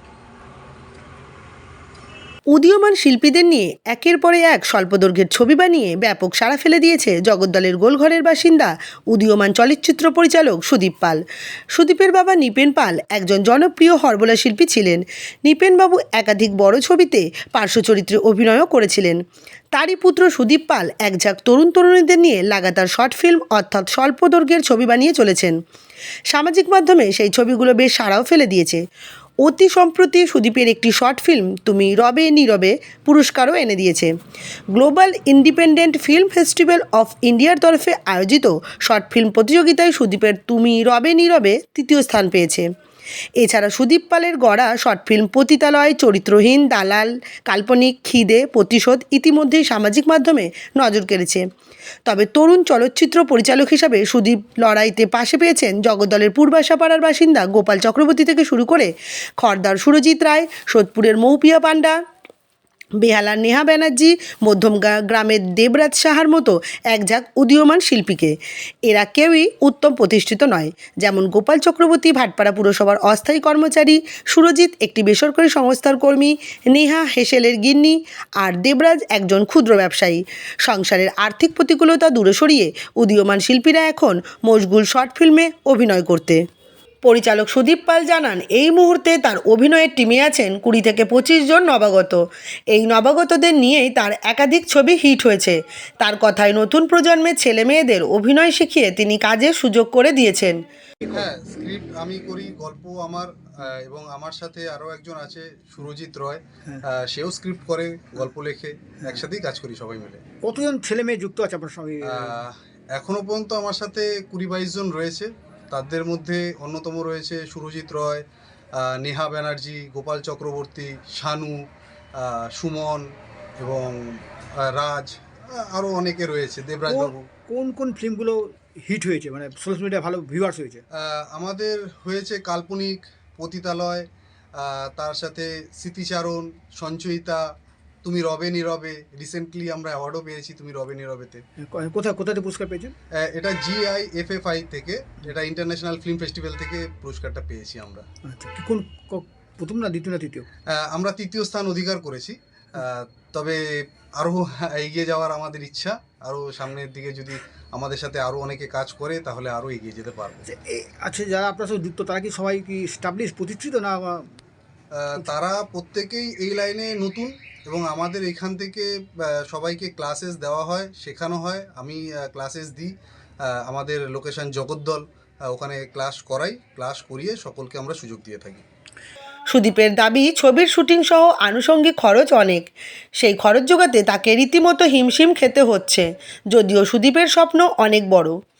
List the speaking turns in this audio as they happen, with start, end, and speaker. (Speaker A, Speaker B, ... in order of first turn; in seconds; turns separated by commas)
Speaker A: 2.5-11.2, Speaker A: 11.7-19.2, Speaker A: 19.7-25.6, Speaker A: 26.3-28.8, Speaker A: 29.4-34.1, Speaker A: 34.7-42.7, Speaker A: 43.4-51.4, Speaker A: 52.0-62.0, Speaker A: 63.0-68.4, Speaker A: 68.9-86.4, Speaker A: 87.0-100.6, Speaker B: 101.1-110.2, Speaker C: 110.4-112.3, Speaker B: 112.2-118.2, Speaker B: 118.8-121.6, Speaker B: 122.2-123.0, Speaker B: 123.6-127.2, Speaker C: 126.9-130.8, Speaker B: 131.0-134.1, Speaker B: 134.6-137.4, Speaker B: 138.0-141.4, Speaker C: 141.6-142.9, Speaker B: 143.2-148.1, Speaker C: 148.2-150.5, Speaker B: 150.7-153.6, Speaker B: 154.2-160.4, Speaker C: 160.5-164.3, Speaker B: 165.0-178.6, Speaker A: 179.5-188.4